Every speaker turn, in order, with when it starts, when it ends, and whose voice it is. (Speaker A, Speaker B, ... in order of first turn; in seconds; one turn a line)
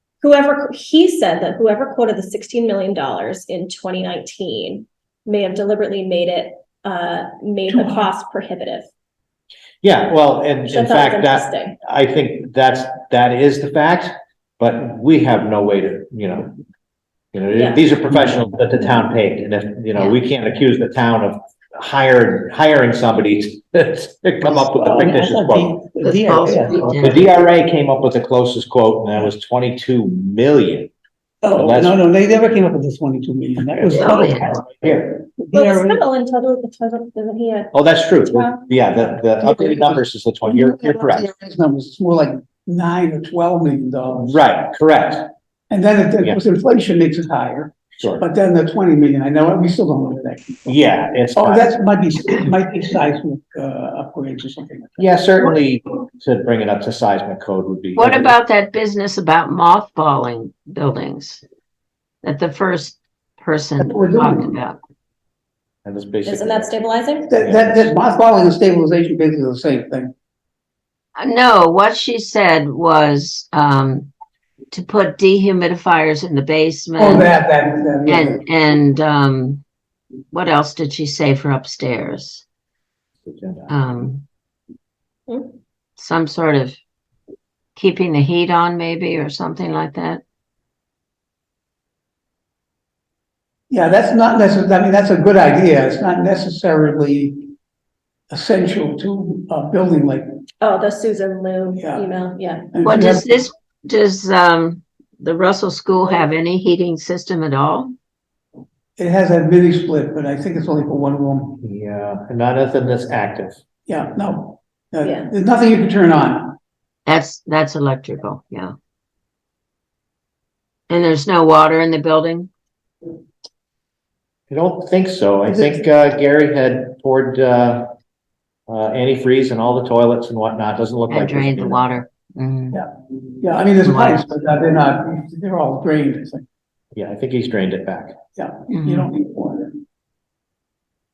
Speaker A: 0.2-8.9
Speaker B: 7.7-8.1
Speaker C: 9.8-16.5
Speaker A: 10.7-11.8
Speaker C: 17.3-25.8
Speaker A: 17.6-17.8
Speaker B: 24.4-27.2
Speaker D: 26.0-27.2
Speaker C: 27.0-30.9
Speaker B: 31.4-36.0
Speaker C: 31.5-32.0
Speaker D: 33.9-34.6
Speaker C: 34.3-35.1
Speaker A: 35.5-38.7
Speaker C: 37.7-41.3
Speaker B: 39.4-44.4
Speaker C: 44.2-45.3
Speaker B: 45.7-50.8
Speaker C: 48.0-48.2
Speaker C: 50.7-51.7
Speaker B: 51.3-55.5
Speaker C: 55.0-58.4
Speaker D: 58.0-61.4
Speaker D: 62.2-64.8
Speaker B: 63.8-64.6
Speaker C: 65.8-66.7
Speaker A: 66.2-67.3
Speaker B: 67.3-70.1
Speaker C: 67.4-67.9
Speaker D: 71.2-74.1
Speaker D: 74.7-77.3
Speaker B: 77.0-78.4
Speaker D: 78.1-79.6
Speaker D: 80.3-82.5
Speaker C: 83.2-83.7
Speaker D: 83.7-84.2
Speaker D: 86.0-86.8
Speaker D: 87.8-90.2
Speaker B: 93.7-97.5
Speaker B: 98.3-100.3
Speaker A: 100.6-102.7
Speaker B: 101.8-102.1
Speaker B: 102.7-103.4
Speaker D: 102.8-107.9
Speaker B: 109.0-111.6
Speaker C: 111.6-113.6
Speaker B: 113.9-116.6
Speaker A: 115.0-115.3
Speaker D: 117.1-118.7
Speaker D: 120.9-122.5
Speaker C: 124.5-127.9
Speaker B: 125.5-125.8
Speaker C: 128.7-131.8
Speaker D: 131.1-132.8
Speaker B: 132.7-136.4
Speaker D: 133.8-134.2
Speaker C: 136.9-138.2
Speaker B: 138.4-139.8
Speaker D: 138.7-139.1